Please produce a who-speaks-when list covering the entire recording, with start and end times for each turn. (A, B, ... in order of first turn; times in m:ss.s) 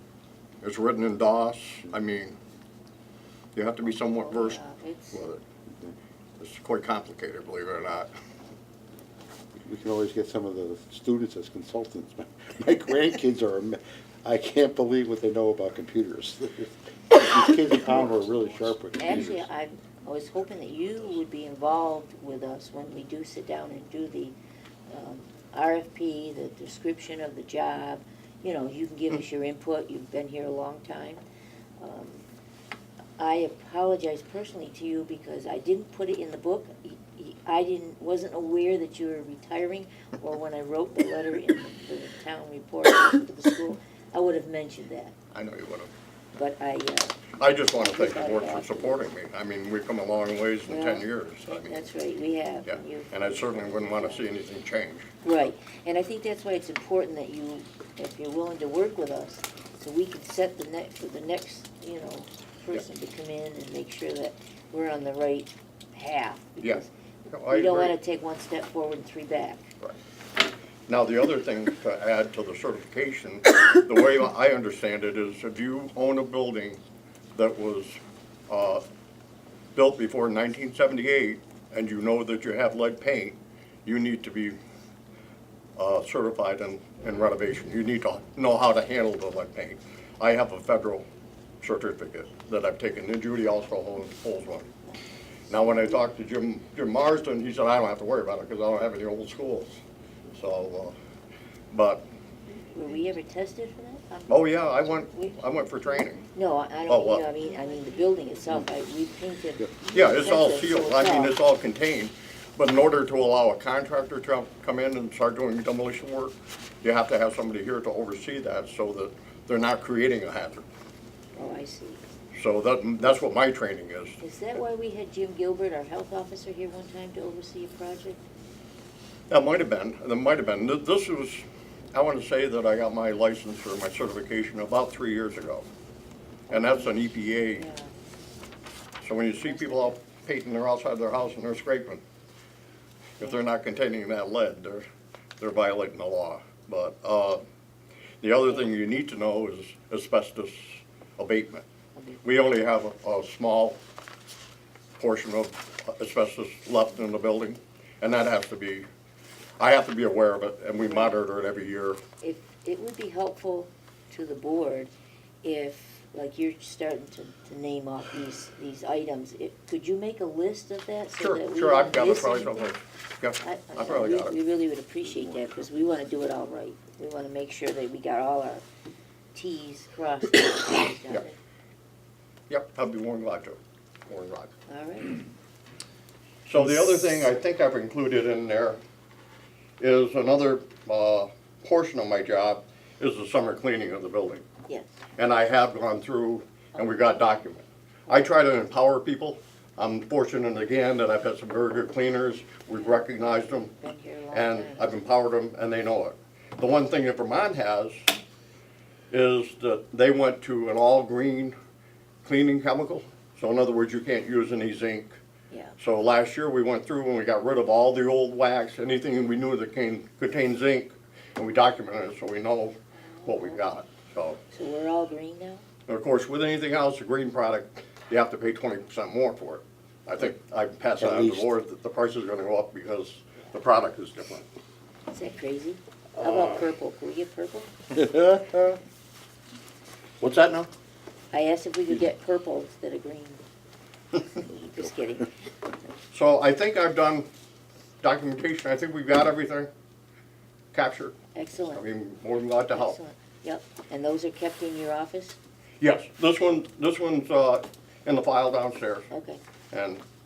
0:00.6-0:02.4 A
0:03.5-0:04.6 A
0:04.0-0:05.2 B
0:05.1-0:05.4 A
0:06.4-0:08.1 A
0:09.6-0:19.5 C
0:19.0-0:24.4 B
0:24.9-0:31.2 B
0:31.8-0:32.3 B
0:33.2-0:45.2 B
0:45.3-0:45.9 A
0:46.4-0:49.0 B
0:47.4-0:51.9 A
0:50.7-0:54.3 B
0:52.7-0:55.1 A
0:55.2-1:06.9 B
1:06.6-1:07.9 A
1:07.5-1:09.7 B
1:10.9-1:16.8 A
1:17.3-1:18.8 A
1:19.7-1:24.6 A
1:25.8-1:31.1 A
1:31.6-1:34.7 A
1:35.5-1:41.0 A
1:41.7-1:42.0 A
1:42.7-1:45.5 B
1:44.3-1:46.2 A
1:46.2-1:51.4 B
1:46.9-1:47.2 A
1:49.9-2:00.7 A
2:01.3-2:02.0 B
2:02.3-2:04.2 A
2:04.2-2:08.2 B
2:09.3-2:15.7 A
2:16.5-2:17.0 B
2:16.5-2:17.6 A
2:17.5-2:17.9 B
2:19.0-2:22.0 A
2:19.3-2:20.0 B
2:23.2-2:24.8 A
2:25.4-2:27.4 A
2:28.2-2:31.6 A
2:32.0-2:32.2 B
2:32.2-2:33.8 A
2:35.0-2:38.9 A
2:39.6-2:42.0 A
2:40.8-2:41.2 B
2:42.2-2:44.9 B
2:45.4-2:52.7 B
2:51.2-2:54.3 A
2:53.4-2:58.6 B
2:59.3-3:01.4 B
3:02.5-3:04.5 A
3:04.7-3:05.2 B
3:06.5-3:08.8 A
3:09.8-3:14.4 A
3:15.2-3:23.7 A
3:22.7-3:25.0 B
3:24.3-3:28.1 A
3:29.1-3:31.6 A
3:32.2-3:35.2 A
3:35.5-3:35.8 B
3:35.8-3:44.4 A
3:43.0-3:43.6 B
3:44.5-3:45.6 B
3:45.9-3:54.5 A
3:51.0-3:51.5 C
3:55.1-3:57.7 B
3:56.2-3:56.7 A
3:58.0-3:58.8 C
4:00.2-4:00.7 A
4:01.3-4:03.4 B
4:04.3-4:05.3 B
4:06.1-4:07.3 A
4:08.0-4:09.7 A
4:10.7-4:13.0 A
4:11.3-4:11.9 B
4:12.7-4:15.4 B
4:15.8-4:19.1 A
4:19.1-4:19.4 B
4:19.7-4:20.0 A